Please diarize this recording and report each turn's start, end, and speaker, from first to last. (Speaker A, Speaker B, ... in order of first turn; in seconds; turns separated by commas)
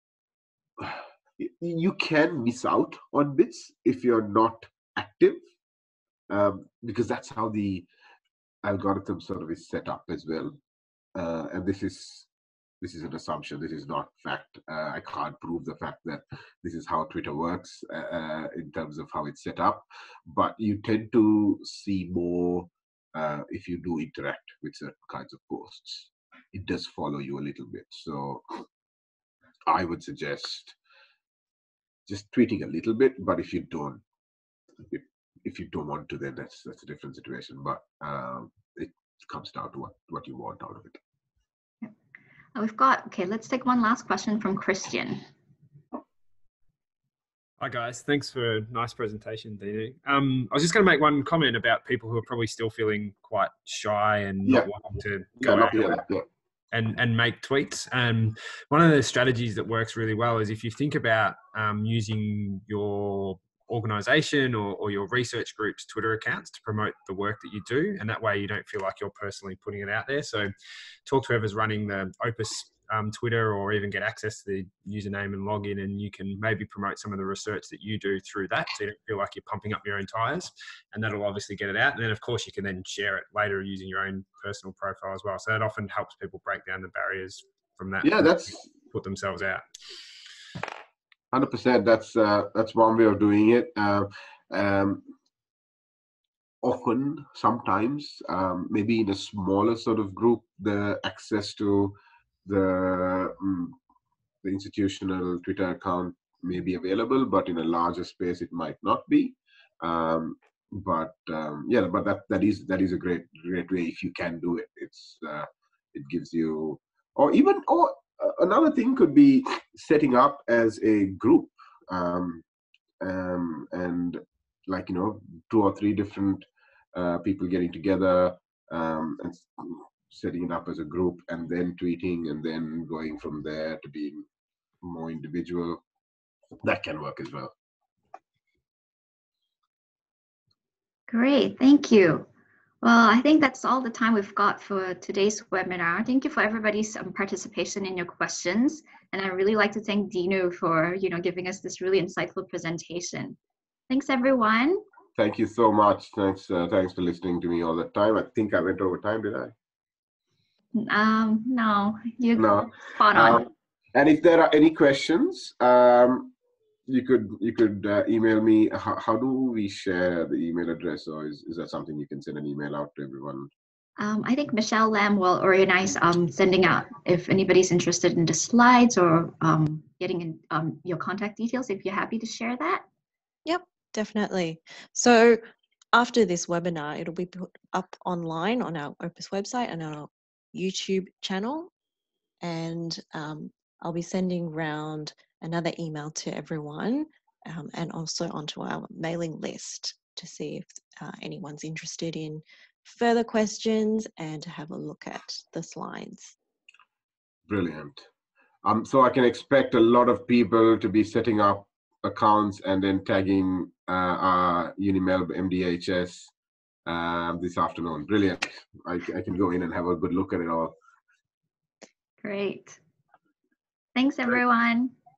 Speaker A: 0.8-5.4, Speaker A: 6.3-7.9, Speaker A: 8.6-10.6, Speaker A: 11.1-12.3, Speaker A: 12.8-28.4, Speaker A: 29.7-30.8, Speaker A: 32.1-34.0, Speaker A: 34.9-41.0, Speaker B: 42.5-45.2, Speaker C: 47.6-56.0, Speaker A: 54.4-54.7, Speaker A: 55.4-56.2, Speaker C: 56.7-70.5, Speaker C: 71.0-89.6, Speaker A: 88.0-88.7, Speaker A: 91.3-95.0, Speaker A: 96.6-103.8, Speaker A: 104.4-122.4, Speaker A: 123.0-134.2, Speaker A: 134.8-135.8, Speaker A: 136.6-137.5, Speaker B: 141.1-142.3, Speaker B: 142.8-153.4, Speaker B: 153.9-154.8, Speaker A: 155.2-159.5, Speaker B: 160.7-163.4, Speaker A: 162.4-166.3, Speaker A: 166.9-173.5, Speaker B: 174.0-182.8, Speaker D: 183.4-185.4, Speaker D: 185.9-191.7, Speaker D: 192.4-206.3, Speaker A: 207.5-208.1, Speaker A: 208.6-216.3, Speaker A: 216.8-220.7, Speaker B: 222.2-222.8, Speaker B: 223.9-224.9